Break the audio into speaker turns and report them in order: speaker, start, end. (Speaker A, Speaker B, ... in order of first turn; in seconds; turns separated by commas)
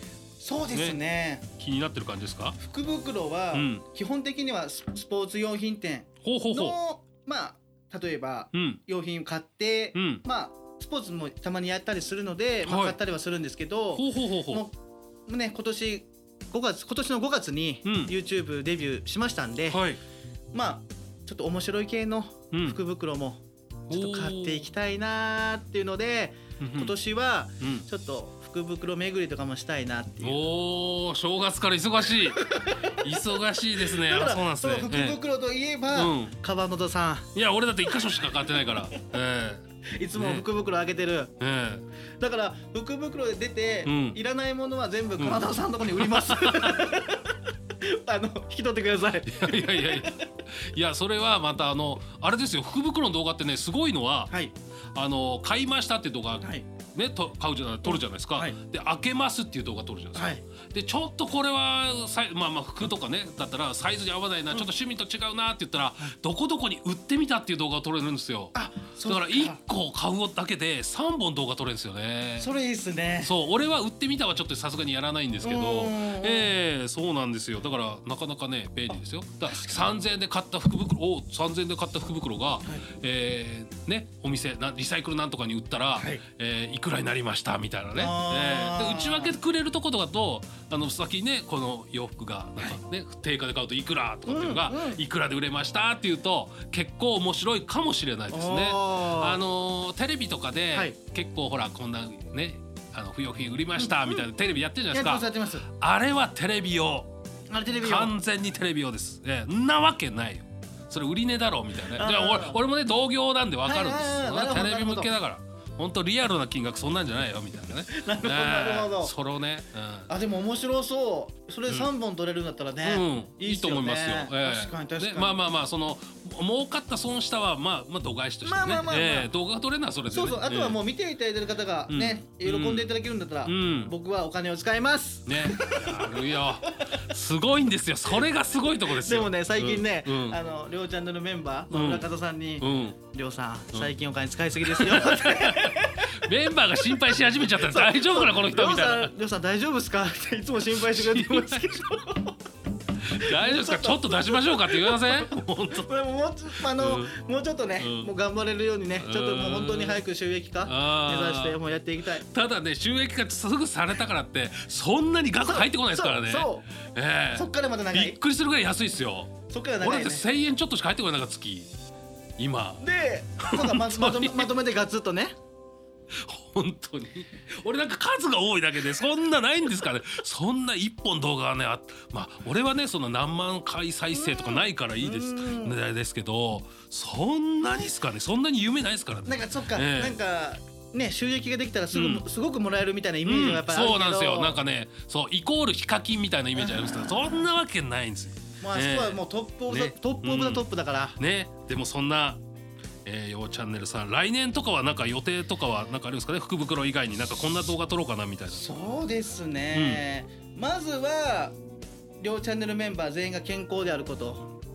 Speaker A: 0.4-1.4, Speaker B: 0.7-1.0, Speaker B: 1.6-2.6, Speaker A: 2.6-14.7, Speaker B: 3.5-3.9, Speaker B: 6.2-6.8, Speaker B: 8.5-8.8, Speaker B: 9.9-10.2, Speaker B: 12.6-13.0, Speaker B: 13.9-14.7, Speaker A: 15.3-19.9, Speaker B: 17.8-18.1, Speaker B: 19.7-20.0, Speaker A: 20.5-30.4, Speaker B: 22.5-22.8, Speaker B: 23.9-24.7, Speaker B: 26.6-26.9, Speaker B: 27.6-27.9, Speaker B: 30.2-35.2, Speaker A: 32.3-32.9, Speaker A: 33.8-37.3, Speaker B: 35.9-36.4, Speaker B: 37.3-40.5, Speaker A: 39.9-41.3, Speaker B: 41.4-41.9, Speaker A: 42.2-50.2, Speaker B: 43.8-44.2, Speaker B: 45.2-47.0, Speaker B: 49.3-54.4, Speaker A: 54.3-54.5, Speaker B: 55.0-72.5, Speaker A: 57.9-58.6, Speaker A: 60.1-60.4, Speaker A: 68.5-69.6, Speaker A: 72.4-73.3, Speaker B: 73.2-107.1, Speaker A: 75.4-76.5, Speaker A: 79.5-80.0, Speaker A: 86.0-86.2, Speaker A: 88.0-89.4, Speaker A: 94.3-95.0, Speaker A: 98.3-99.4, Speaker A: 103.8-104.2, Speaker A: 104.9-105.7, Speaker A: 107.5-108.2, Speaker B: 107.8-120.1, Speaker A: 111.9-112.6, Speaker A: 113.6-115.1, Speaker A: 117.9-119.1, Speaker A: 120.1-125.4, Speaker B: 122.8-130.8, Speaker A: 128.4-129.3, Speaker A: 130.1-136.1, Speaker B: 131.9-133.9, Speaker B: 135.2-140.4, Speaker A: 138.9-146.2, Speaker B: 141.7-142.1, Speaker B: 142.6-143.0, Speaker B: 144.6-149.2, Speaker A: 146.7-152.3, Speaker B: 150.7-151.8, Speaker B: 153.0-155.9, Speaker A: 153.2-162.3, Speaker B: 156.5-157.2, Speaker B: 157.8-158.1, Speaker B: 158.9-160.1, Speaker B: 160.6-171.7, Speaker A: 165.4-166.7, Speaker A: 167.3-168.2, Speaker A: 169.5-170.2, Speaker B: 172.4-172.9, Speaker A: 172.8-175.3, Speaker B: 173.4-174.5, Speaker B: 176.2-190.2, Speaker A: 184.1-185.8, Speaker A: 189.3-194.6, Speaker B: 191.9-192.3, Speaker B: 193.2-202.4, Speaker A: 196.6-197.1, Speaker A: 198.6-201.2, Speaker B: 203.1-208.7, Speaker A: 208.5-211.6, Speaker B: 209.7-210.0, Speaker A: 212.2-214.5